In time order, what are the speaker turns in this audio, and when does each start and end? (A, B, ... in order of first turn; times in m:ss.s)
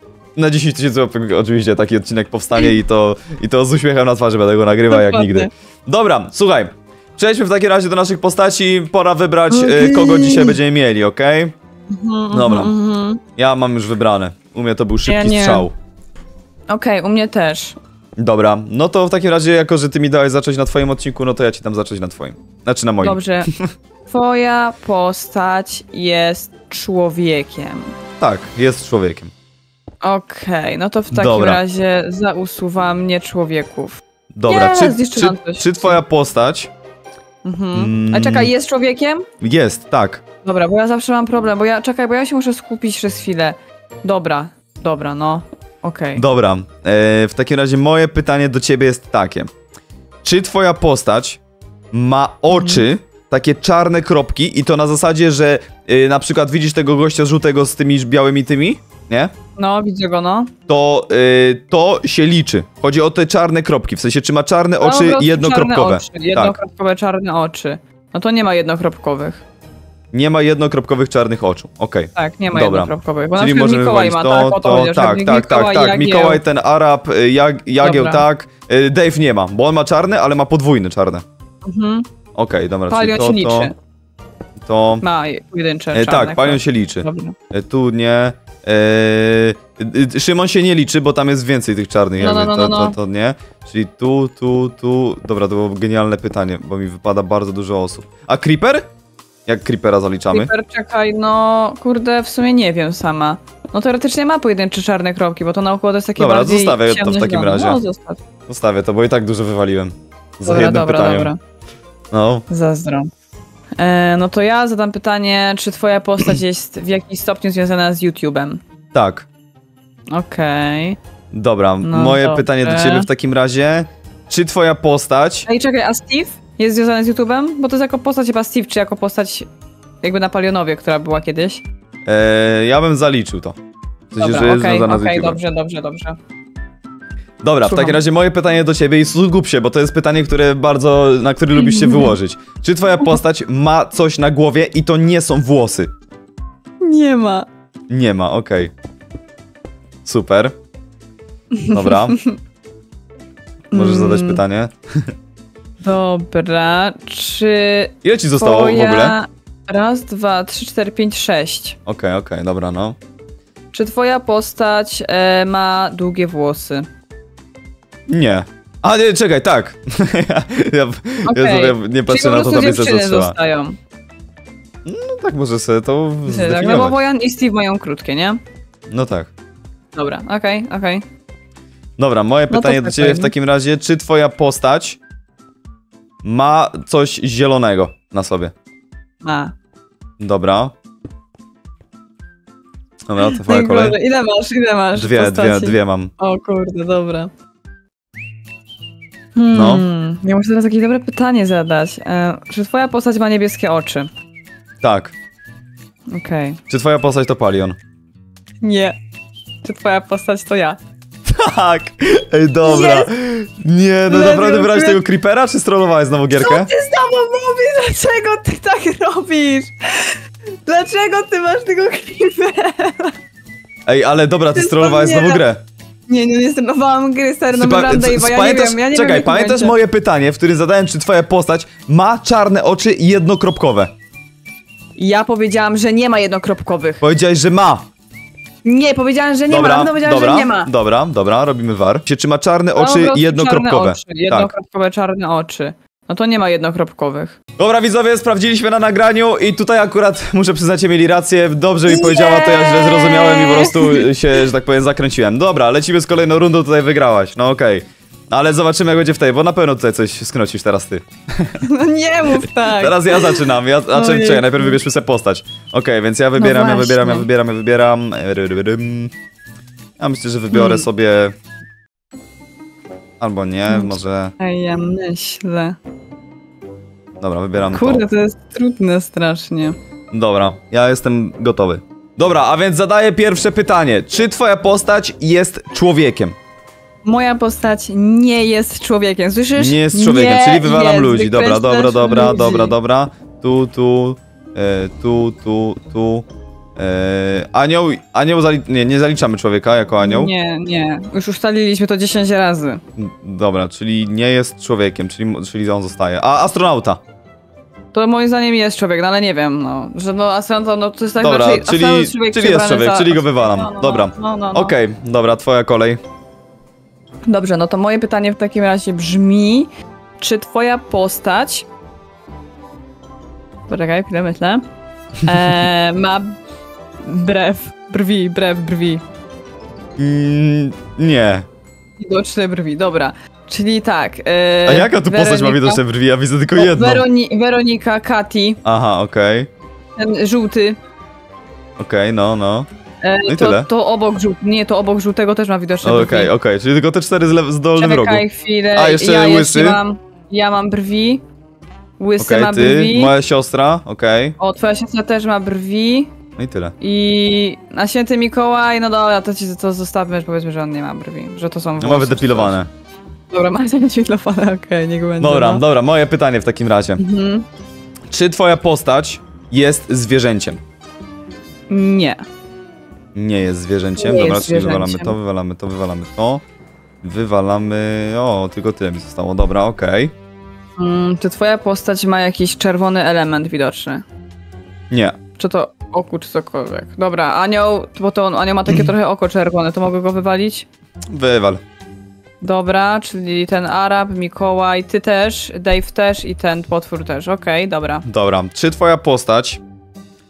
0:00.4-0:11.5 A
0:04.9-0:05.5 B
0:09.5-0:10.6 B
0:11.9-0:13.2 B
0:12.3-0:12.7 A
0:13.4-0:15.7 A
0:15.1-0:15.7 B
0:16.7-0:17.8 B
0:18.2-0:23.7 A
0:23.0-0:23.5 B
0:24.1-0:27.9 B
0:28.2-0:29.3 A
0:30.0-0:36.0 B
0:31.1-0:31.6 A
0:34.3-0:36.7 A
0:37.4-0:39.2 B
0:37.7-0:38.5 A
0:39.4-0:40.2 A
0:40.4-0:46.2 B
0:46.2-0:49.5 A
0:50.2-0:51.4 A
0:51.9-0:59.3 A
0:52.5-0:52.9 B
0:59.6-1:00.5 B
1:00.7-1:06.6 A
1:04.8-1:09.4 B
1:10.1-1:21.2 A
1:12.2-1:16.4 B
1:17.8-1:18.3 B
1:21.6-1:22.1 B
1:22.4-1:23.7 A
1:22.9-1:23.7 B
1:24.6-1:25.0 A
1:25.0-1:27.4 B
1:25.9-1:38.9 A
1:32.2-1:33.0 B
1:39.5-1:40.5 A
1:40.3-1:48.2 B
1:46.2-1:47.8 A
1:48.5-1:51.3 A
1:50.4-1:51.4 B
1:52.1-1:52.4 A
1:52.5-1:53.1 B
1:53.8-1:58.6 B
1:58.9-1:59.3 A
2:00.1-2:01.0 B
2:01.3-2:05.5 A
2:01.8-2:03.1 B
2:05.5-2:09.5 B
2:10.0-2:11.6 B
2:12.1-2:13.6 A
2:14.1-2:15.4 A
2:14.2-2:16.2 B
2:17.4-2:25.9 A
2:17.6-2:18.0 B
2:21.5-2:22.2 B
2:26.8-2:27.5 B
2:27.9-2:28.7 A
2:30.0-2:30.5 A
2:31.5-2:32.4 B
2:31.7-2:32.2 A
2:33.7-2:34.4 B
2:33.7-2:35.1 A
2:35.8-2:41.8 B
2:38.0-2:39.2 A
2:41.9-2:43.0 A
2:43.7-2:46.9 B
2:48.1-2:53.4 A
2:51.3-2:53.8 B
2:54.8-2:57.0 A
2:56.3-2:58.4 B
2:58.9-2:59.3 A
3:00.0-3:01.0 B
3:02.0-3:05.0 A
3:02.5-3:03.3 B
3:06.2-3:08.5 A
3:09.2-3:09.5 B
3:10.2-3:10.7 A
3:13.1-3:14.0 A
3:13.2-3:17.3 B
3:15.0-3:16.1 A
3:19.4-3:24.1 B
3:19.5-3:19.8 A
3:24.8-3:25.1 A
3:26.1-3:26.6 B
3:26.7-3:27.8 A
3:28.6-3:29.0 B
3:29.6-3:30.8 B
3:31.3-3:36.7 A
3:32.6-3:33.1 B
3:34.1-3:35.0 B
3:36.4-3:43.1 B
3:43.9-3:45.6 A
3:44.5-3:45.4 B
3:46.1-3:49.8 B
3:47.5-3:53.9 A
3:55.0-3:57.0 B
3:57.0-3:57.8 A
3:58.6-4:00.7 B
3:59.5-4:04.5 A
4:02.8-4:07.4 B
4:07.6-4:21.6 A
4:11.9-4:14.4 B
4:21.6-4:24.8 B
4:22.4-4:29.1 A
4:26.4-4:27.3 B
4:30.0-4:31.3 A
4:30.5-4:30.9 B
4:33.2-4:34.3 A
4:33.7-4:35.8 B
4:37.2-4:38.0 A
4:37.7-4:39.8 B
4:40.1-4:46.4 A
4:47.0-4:52.8 B
4:49.6-4:56.3 A
4:56.8-5:00.3 A
5:00.0-5:02.8 B
5:03.0-5:07.0 A
5:07.9-5:14.8 B
5:11.2-5:16.0 A
5:17.3-5:21.7 B
5:23.7-5:24.6 B
5:25.3-5:26.3 B
5:27.0-5:29.0 B
5:30.0-5:31.5 A
5:32.0-5:35.8 B
5:34.6-5:37.1 A
5:36.6-5:38.6 B
5:38.6-5:39.5 A
5:40.0-5:40.8 B
5:41.8-5:42.7 A
5:43.0-5:46.3 B
5:43.3-5:43.7 A
5:45.8-5:49.8 A
5:47.8-5:51.2 B
5:52.0-5:53.1 B
5:52.2-5:54.4 A
5:54.4-5:56.1 B
5:56.4-5:56.7 A
5:56.8-6:02.6 B
6:01.8-6:02.7 A
6:03.3-6:05.6 B
6:05.2-6:07.0 A
6:07.0-6:07.5 B
6:08.1-6:10.6 A
6:11.7-6:12.2 B
6:13.2-6:16.4 A
6:14.0-6:15.2 B
6:17.0-6:20.1 A
6:20.8-6:24.0 B
6:24.9-6:25.2 A
6:25.4-6:30.7 B
6:31.1-6:31.6 A
6:32.4-6:38.0 B
6:38.1-6:39.6 A